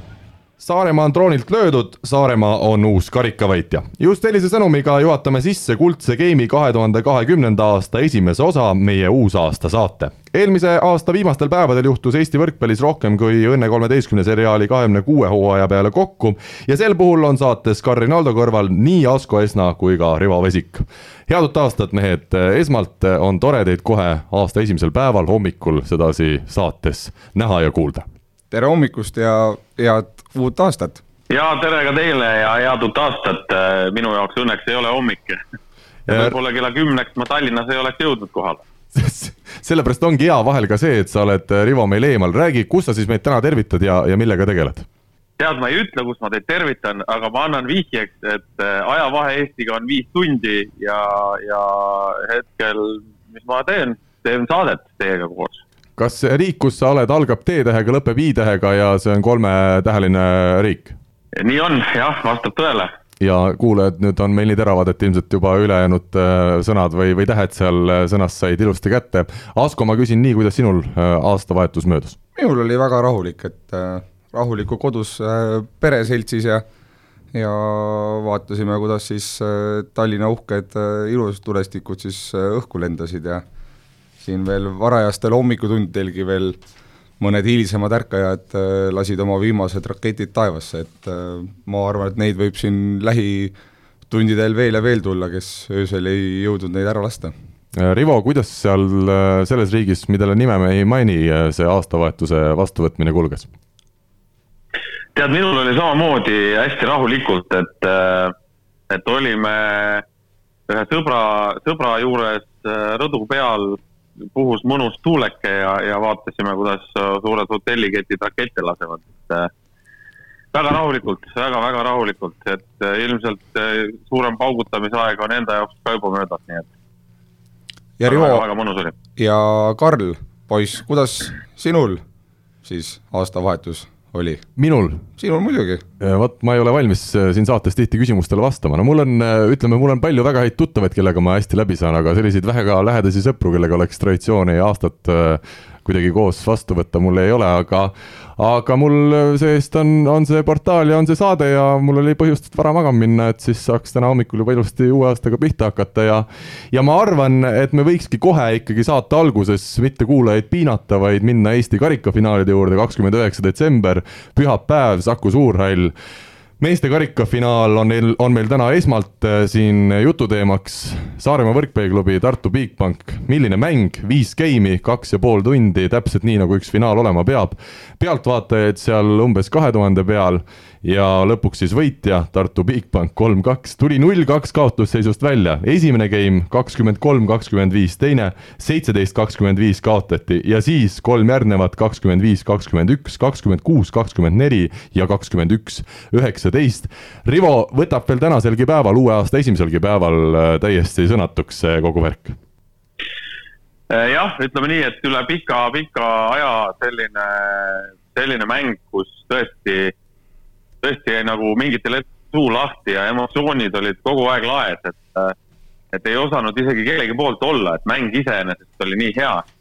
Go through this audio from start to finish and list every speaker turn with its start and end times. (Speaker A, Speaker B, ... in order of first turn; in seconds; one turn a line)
Speaker A: 0.6-28.0
Speaker B: 28.5-31.0
Speaker C: 31.3-35.4
Speaker A: 36.1-36.3
Speaker C: 36.1-38.6
Speaker A: 38.9-44.9
Speaker C: 45.4-55.6
Speaker A: 56.0-61.0
Speaker C: 61.4-62.9
Speaker A: 63.2-72.2
Speaker B: 72.3-76.6
Speaker B: 77.3-83.4
Speaker B: 84.2-86.6
Speaker B: 87.2-93.5
Speaker B: 94.1-97.3
Speaker A: 97.7-103.5
Speaker C: 105.1-108.3
Speaker C: 108.9-110.0
Speaker C: 110.7-113.8
Speaker C: 114.3-119.5
Speaker C: 120.5-126.7
Speaker B: 128.0-128.4
Speaker C: 128.0-128.9
Speaker B: 129.2-132.0
Speaker B: 132.6-134.4
Speaker A: 134.6-135.0
Speaker B: 135.2-135.8
Speaker A: 136.0-165.9
Speaker A: 166.6-202.4
Speaker C: 203.9-209.9
Speaker C: 210.8-215.3
Speaker C: 215.9-219.4